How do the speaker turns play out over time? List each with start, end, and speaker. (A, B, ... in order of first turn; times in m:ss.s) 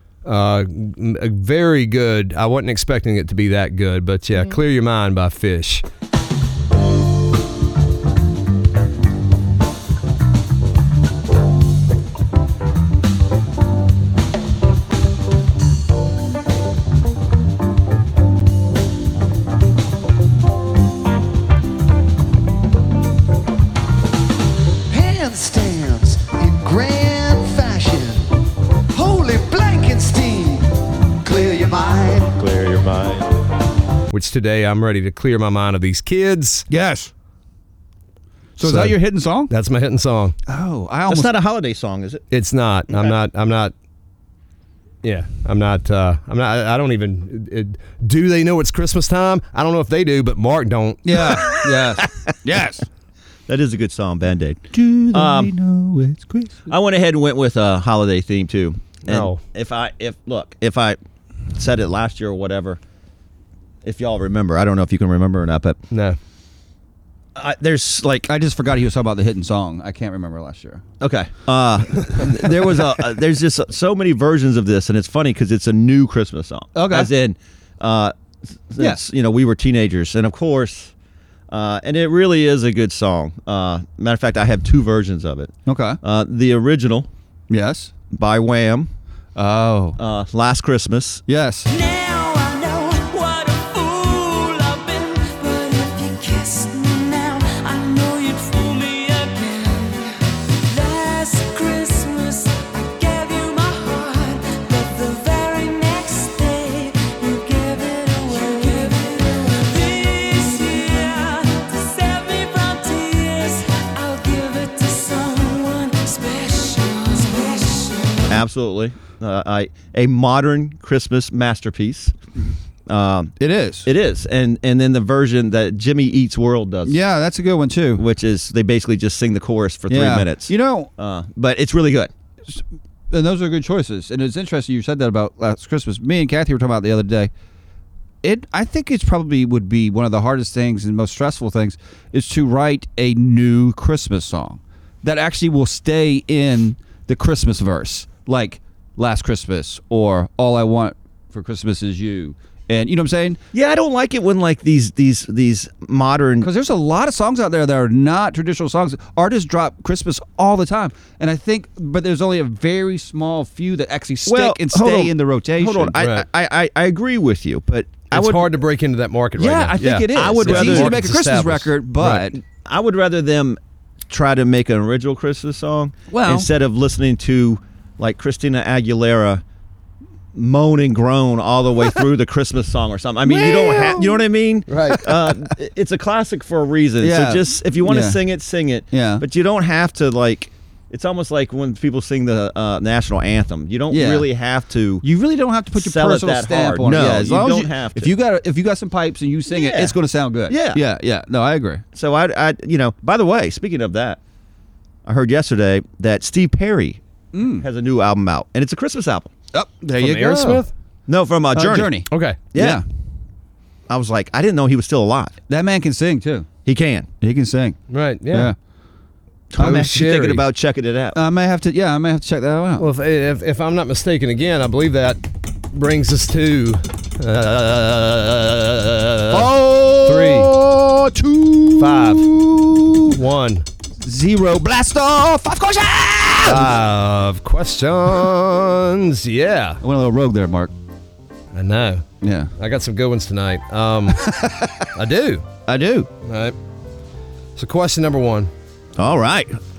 0:00.2-0:05.8 A
0:24.9-0:28.3 B
0:28.9-0:32.4 B
0:32.4-0:33.2 C
0:34.1-0:36.6 A
0:36.7-0:37.1 D
0:38.6-0:39.5 D
0:38.6-0:40.4 A
0:40.5-0:41.3 D
0:41.1-0:42.2 C
0:42.3-0:43.7 A
0:45.0-0:51.4 A
0:51.0-0:52.9 D
0:51.6-0:52.0 C
0:53.5-0:55.5 C
0:54.7-0:56.7 D
0:56.7-1:01.0 C
0:59.1-0:59.4 A
1:01.5-1:02.8 C
1:03.8-1:05.8 C
1:05.9-1:06.2 A
1:07.4-1:08.3 C
1:08.2-1:10.8 D
1:11.0-1:18.1 C
1:16.7-1:17.1 D
1:18.7-1:20.9 C
1:18.8-1:19.0 D
1:21.5-1:27.1 C
1:25.7-1:26.0 D
1:27.5-1:27.9 D
1:28.1-1:28.9 C
1:29.3-1:30.0 D
1:30.0-1:31.2 C
1:31.3-1:31.7 D
1:31.7-1:58.3 E
1:58.3-2:02.2 C
2:02.9-2:07.0 C
2:03.4-2:03.9 D
2:06.8-2:08.0 D
2:08.0-2:12.1 C
2:09.9-2:10.9 D
2:12.4-2:17.3 D
2:18.2-2:33.4 D
2:33.5-2:36.5 C
2:36.4-2:46.0 D
2:44.2-2:48.5 C
2:46.0-2:46.2 A
2:48.1-2:52.2 A
2:49.4-2:52.4 D
2:50.1-2:51.0 C
2:52.1-2:59.4 C
2:56.1-2:56.5 D
3:00.3-3:15.0 C
3:03.2-3:04.2 D
3:04.7-3:05.0 A
3:05.0-3:05.3 D
3:07.0-3:08.2 D
3:08.9-3:09.2 D
3:13.9-3:14.3 D
3:15.0-3:21.8 D
3:15.8-3:18.1 C
3:19.5-3:19.9 C
3:20.5-3:20.8 C
3:21.9-3:24.2 C
3:25.0-3:29.3 C
3:27.3-3:27.6 D
3:29.5-3:30.6 D
3:30.0-3:30.7 A
3:31.1-3:31.9 C
3:31.5-3:32.8 D
3:32.1-3:32.4 A
3:32.5-3:32.8 C
3:33.9-3:35.4 C
3:35.5-3:36.5 D
3:36.6-3:37.1 C
3:37.2-3:37.8 D
3:37.9-3:38.5 A
3:38.3-3:38.6 D
3:39.5-3:41.2 C
3:39.6-3:40.4 A
3:39.6-3:39.9 D
3:41.1-3:42.9 D
3:42.8-3:45.2 A
3:45.7-3:49.5 A
3:49.3-3:53.2 D
3:50.0-3:50.5 A
3:51.8-3:52.3 A
3:53.1-3:53.6 A
3:54.0-3:56.8 D
3:56.4-3:59.8 A
3:59.8-4:00.7 D
4:01.5-4:02.0 A
4:02.2-4:02.5 D
4:02.6-4:04.3 A
4:04.1-4:04.9 D
4:04.9-4:05.5 A
4:05.7-4:06.1 D
4:06.2-4:06.6 A
4:07.6-4:08.5 A
4:09.0-4:09.6 C